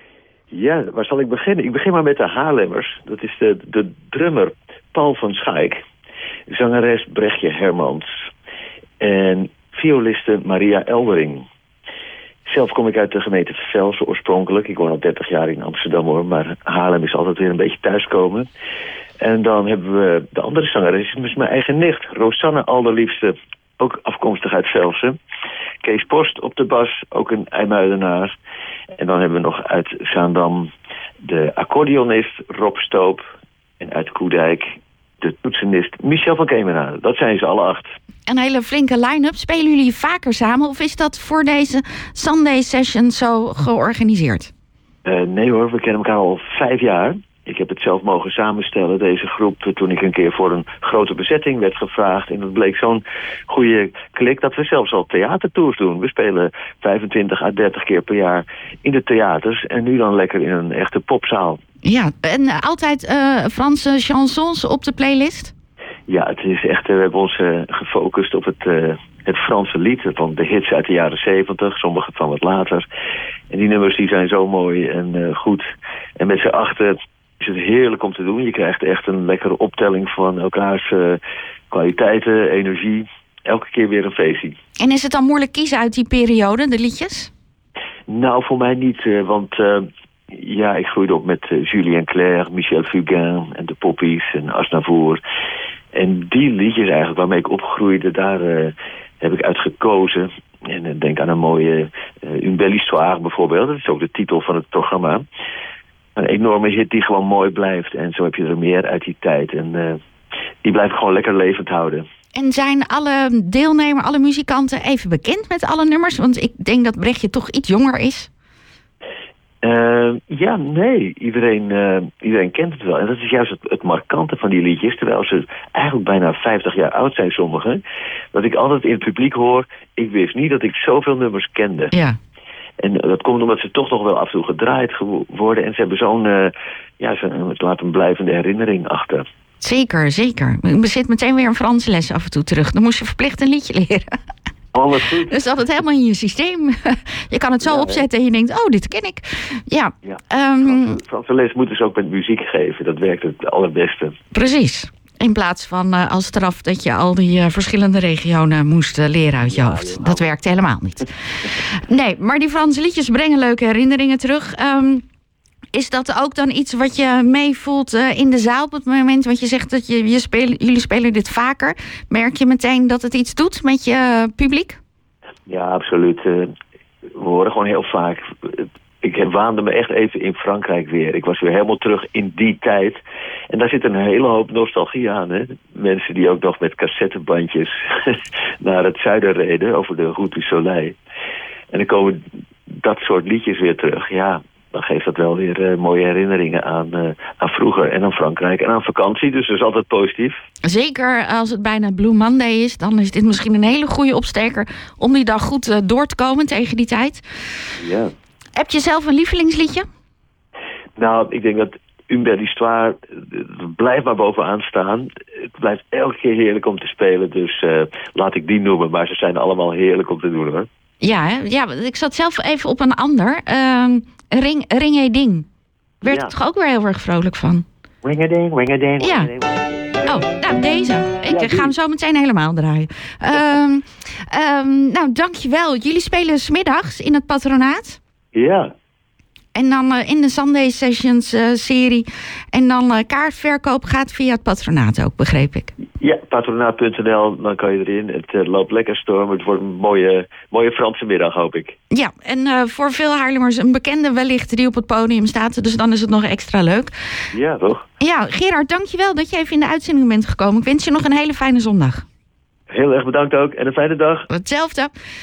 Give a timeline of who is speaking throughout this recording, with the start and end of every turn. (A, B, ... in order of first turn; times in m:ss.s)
0:00.5-0:05.8 A
0:06.5-0:08.1 A
0:09.0-0:11.5 A
0:12.5-0:18.5 A
0:19.2-0:25.2 A
0:25.8-0:28.4 A
0:29.0-0:30.7 A
0:31.2-0:33.2 A
0:33.8-0:38.0 A
0:38.3-0:44.5 B
0:45.0-1:01.6 A
1:01.8-1:05.5 B
1:06.1-1:12.9 A
1:13.5-1:15.7 A
1:16.2-1:21.2 A
1:21.7-1:24.6 A
1:24.8-1:27.3 B
1:28.1-1:35.2 A
1:35.9-1:45.2 A
1:46.2-1:50.0 A
1:50.6-1:52.0 A
1:52.3-1:58.3 B
1:59.6-2:07.8 A
2:08.3-2:11.9 A
2:11.9-2:12.2 B
2:12.8-2:19.2 A
2:19.6-2:24.2 B
2:24.7-2:25.4 A
2:25.3-2:31.0 B
2:27.6-2:28.0 A
2:30.0-2:34.2 A
2:34.3-2:45.0 B
2:39.4-2:40.3 A
2:45.7-2:54.8 B
2:55.5-2:56.5 A
2:57.2-3:11.0 A
3:11.7-3:12.2 A
3:12.8-3:20.4 A
3:20.6-3:27.2 B
3:27.8-3:28.1 A
3:28.6-3:29.8 B
3:31.0-3:40.7 A
3:41.0-3:45.5 B
3:46.0-3:46.3 A
3:46.0-3:47.6 B
3:48.0-3:50.1 A
3:49.0-3:49.3 B
3:50.1-3:58.0 B
3:51.3-3:51.7 A
3:58.4-3:58.7 A
3:59.5-4:05.7 B
4:06.0-4:11.8 A
4:11.9-4:16.9 B
4:17.3-4:17.8 A
4:18.0-4:22.0 B
4:22.7-4:24.3 A
4:24.3-4:24.9 B